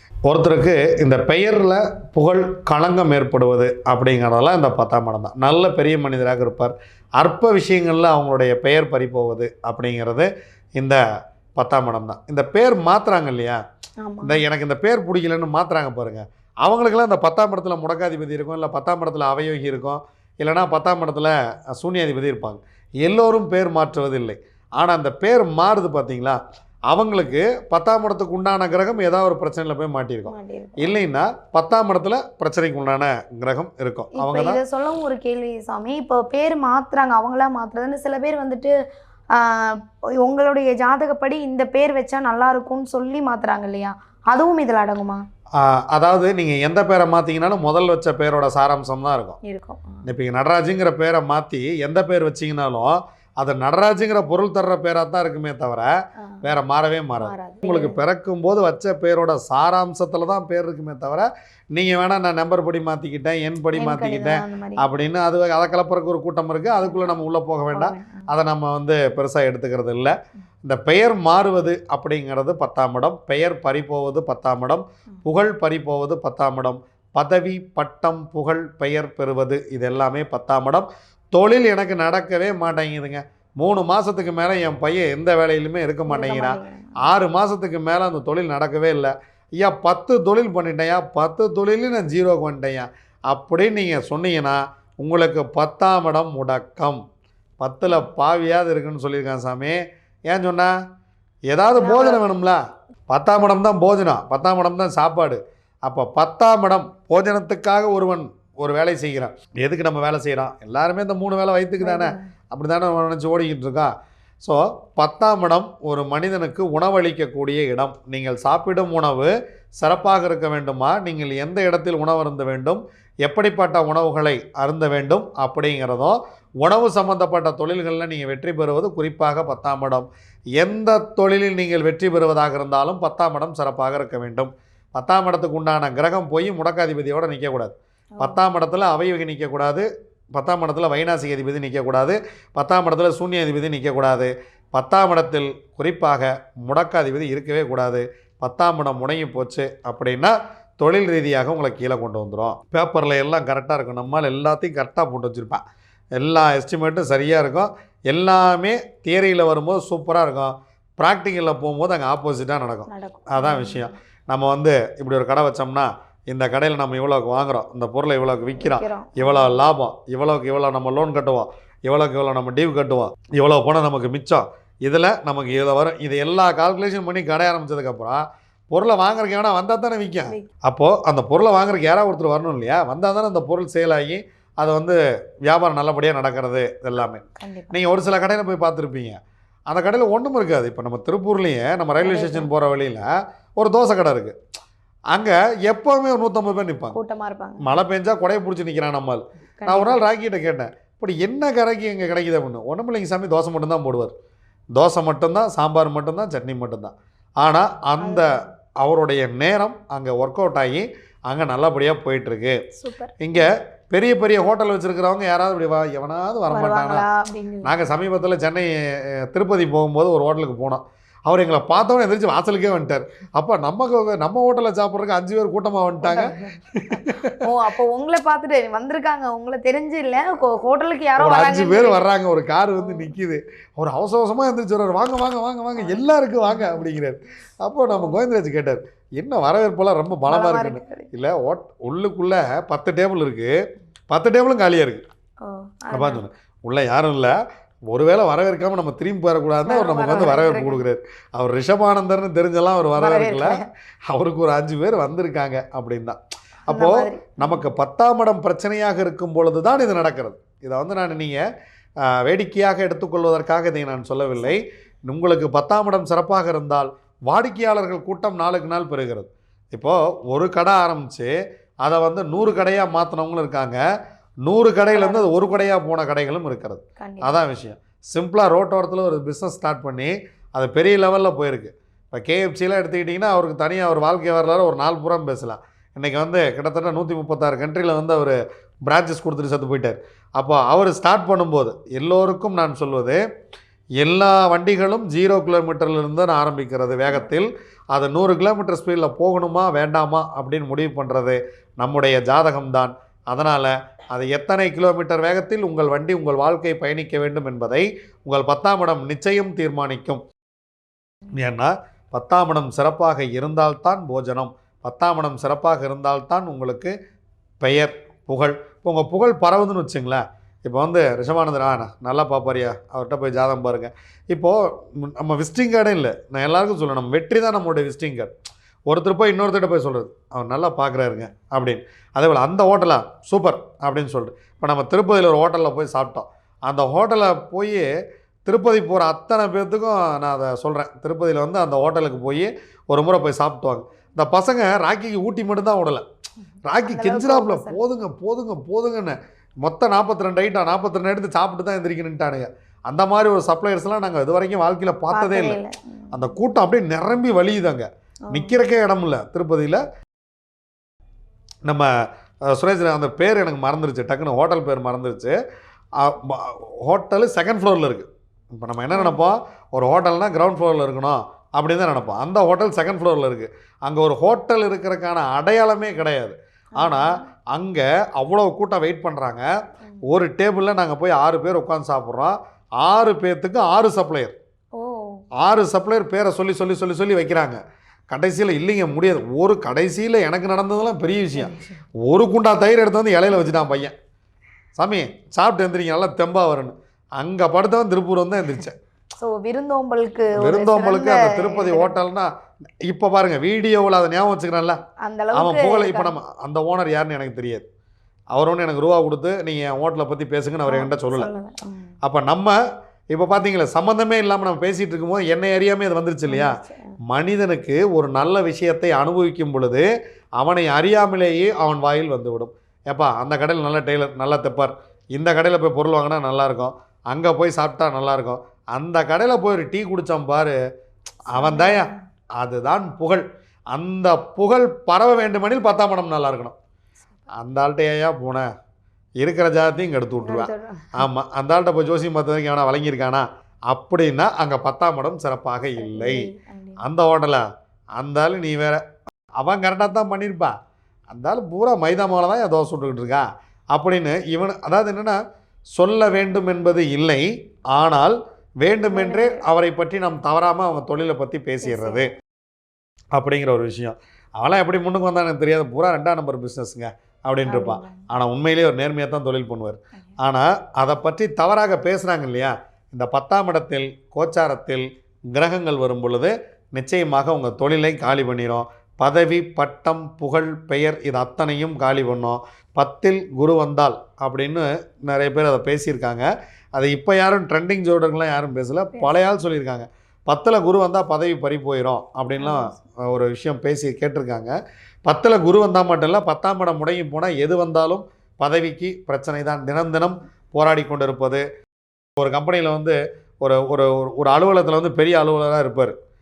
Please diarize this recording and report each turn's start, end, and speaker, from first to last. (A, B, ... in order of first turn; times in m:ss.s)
0:00.2-0:11.0 A
0:11.6-0:13.6 A
0:14.0-0:14.4 B
0:14.2-0:34.6 A
0:30.2-0:31.0 B
0:34.1-0:38.7 B
0:39.3-0:45.2 B
0:45.6-0:49.4 A
0:49.4-0:50.0 B
0:50.0-0:55.9 A
0:56.4-1:37.0 A
0:57.2-0:58.0 B
1:03.8-1:04.8 B
1:06.8-1:07.2 B
1:07.7-1:08.3 B
1:26.1-1:27.0 B
1:37.6-1:40.7 A
1:41.5-1:53.9 A
1:41.8-1:42.2 B
1:51.8-1:52.3 B
1:54.4-2:35.6 A
2:36.2-3:09.2 A
2:42.9-2:43.9 B
2:48.6-2:49.6 B
3:07.4-3:07.7 B
3:09.7-3:14.4 A
3:12.0-3:12.5 B
3:15.1-3:17.0 A
3:16.9-3:17.7 B
3:17.6-3:24.1 A
3:19.6-3:20.0 B
3:24.7-3:32.6 A
3:28.0-3:28.4 B
3:32.8-3:33.5 B
3:33.2-3:37.0 A
3:36.5-3:37.7 B
3:37.6-3:47.4 A
3:46.0-3:52.0 B
3:51.2-4:03.5 A
3:52.8-3:53.1 B
3:55.8-3:56.8 B
4:00.3-4:01.1 B
4:04.1-4:05.0 A
4:05.4-4:06.2 B
4:05.9-4:07.3 A
4:07.9-4:21.4 A
4:09.6-4:10.8 B
4:13.0-4:13.6 B
4:16.7-4:17.7 B
4:22.0-4:31.3 A
4:31.8-4:33.8 A
4:34.4-4:53.2 A
4:34.9-4:35.5 B
4:37.0-4:37.4 B
4:54.0-5:10.2 A
5:11.4-5:16.9 A
5:17.6-5:28.3 A
5:28.9-5:37.8 A
5:38.4-5:46.0 A
5:46.7-5:55.6 A
5:46.8-5:47.8 B
5:55.1-5:56.3 B
5:56.1-5:59.8 A
5:58.3-5:58.6 B
6:02.5-6:05.3 A
6:06.0-6:19.4 A
6:08.9-6:09.2 B
6:16.8-6:17.2 B
6:20.0-6:24.3 A
6:24.8-6:25.2 B
6:25.4-6:27.6 A
6:28.1-6:33.9 A
6:31.3-6:31.8 B
6:34.8-6:38.8 A
6:39.2-6:42.0 B
6:40.4-6:42.3 A
6:42.9-6:44.8 A
6:45.0-6:46.1 B
6:45.3-6:47.6 A
6:48.3-6:51.3 A
6:50.7-6:51.9 B
6:52.0-6:52.6 A
6:53.1-6:59.8 A
6:56.3-6:56.9 B
7:00.4-7:10.5 A
7:11.3-7:16.5 A
7:11.4-7:11.9 B
7:17.4-7:18.4 A
7:19.2-7:26.3 A
7:20.2-7:21.1 B
7:25.8-7:26.8 B
7:26.8-7:28.8 A
7:29.4-7:30.5 A
7:31.1-7:35.2 A
7:35.8-7:42.1 A
7:38.9-7:39.4 B
7:41.6-7:42.1 B
7:43.1-8:14.5 A
7:47.4-7:48.1 B
8:12.4-8:12.8 B
8:15.0-8:21.4 A
8:22.2-8:25.9 A